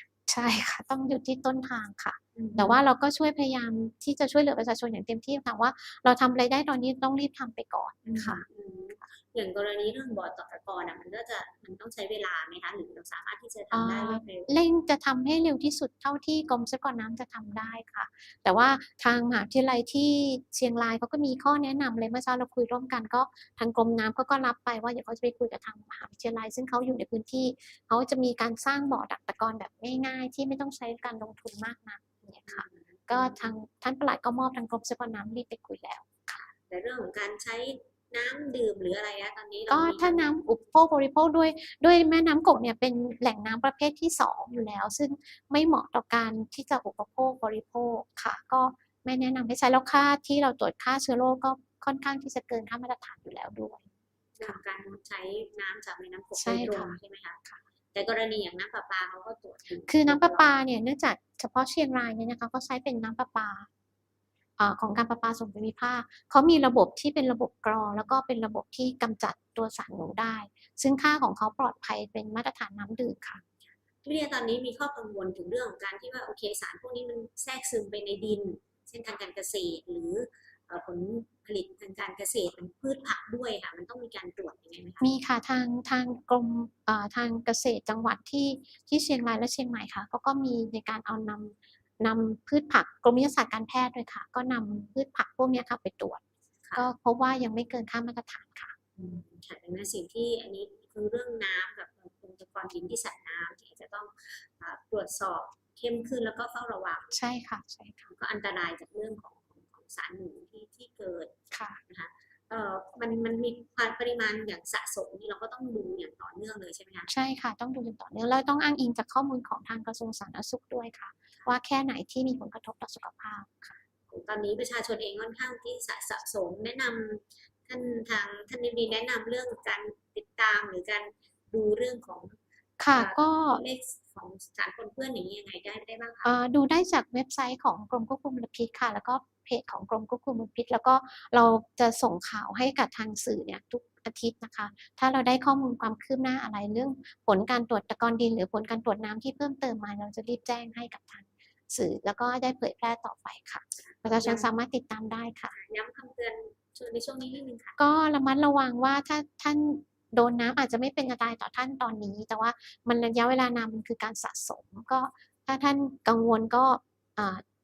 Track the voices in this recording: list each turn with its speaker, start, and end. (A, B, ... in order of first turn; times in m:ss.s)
0:00.3-0:08.4 A
0:02.4-0:02.8 B
0:08.0-0:14.5 B
0:13.7-0:36.4 A
0:32.4-0:33.5 B
0:36.3-0:40.3 B
0:39.7-0:53.9 A
0:54.4-0:57.4 B
0:56.4-0:57.6 A
0:57.9-1:00.5 B
0:59.9-1:03.7 A
1:04.6-1:13.4 A
1:13.3-1:25.1 B
1:25.0-1:36.2 A
1:36.8-1:38.7 A
1:39.0-1:47.2 B
1:47.1-1:48.1 A
1:48.1-1:57.1 B
1:51.5-1:51.8 A
1:57.1-2:03.8 A
2:04.1-2:12.4 B
2:12.8-2:13.6 A
2:12.9-2:16.3 B
2:16.2-2:35.5 A
2:33.8-2:34.5 B
2:35.5-2:37.8 B
2:37.8-2:47.4 A